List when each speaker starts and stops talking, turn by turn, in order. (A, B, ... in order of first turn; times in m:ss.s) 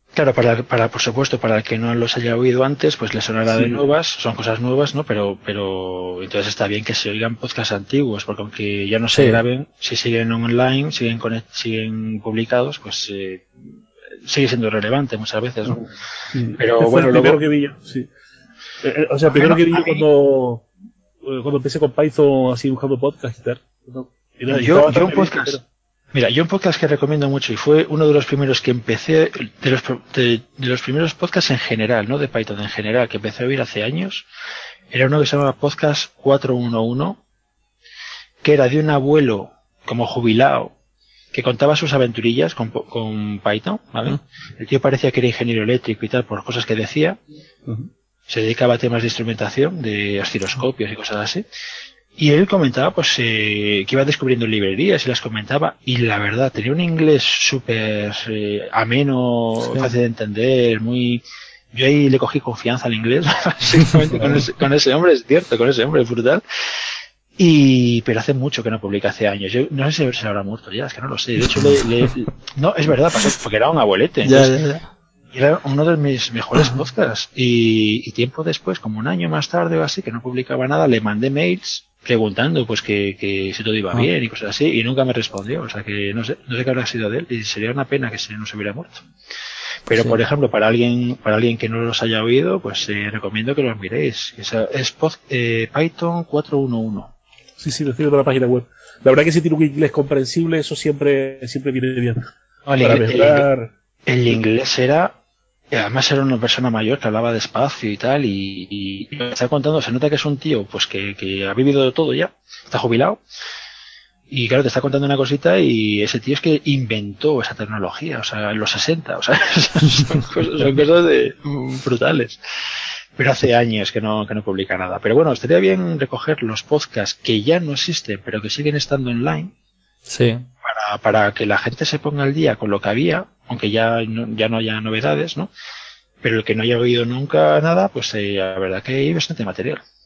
0:00.1-0:13.7 A
0:03.5-0:03.8 B
0:09.1-0:09.4 C
0:14.3-0:15.8 A
0:15.7-0:18.1 B
0:16.6-0:17.4 A
0:18.8-0:20.7 B
0:19.3-0:20.1 A
0:21.2-0:25.6 B
0:24.5-0:25.6 A
0:26.1-0:34.3 A
0:34.9-0:37.2 A
0:38.4-0:40.7 A
0:41.3-0:47.2 A
0:48.3-0:51.4 A
0:52.2-1:14.5 A
0:59.6-1:00.0 C
1:14.2-1:14.9 C
1:15.3-1:29.0 A
1:29.9-1:37.1 A
1:29.9-1:30.2 C
1:37.6-1:42.2 B
1:42.7-1:43.5 A
1:42.8-1:43.7 B
1:44.1-1:45.2 A
1:45.7-1:53.2 A
1:54.3-2:09.5 A
2:10.1-2:10.5 C
2:10.6-2:15.5 A
2:16.2-2:19.8 A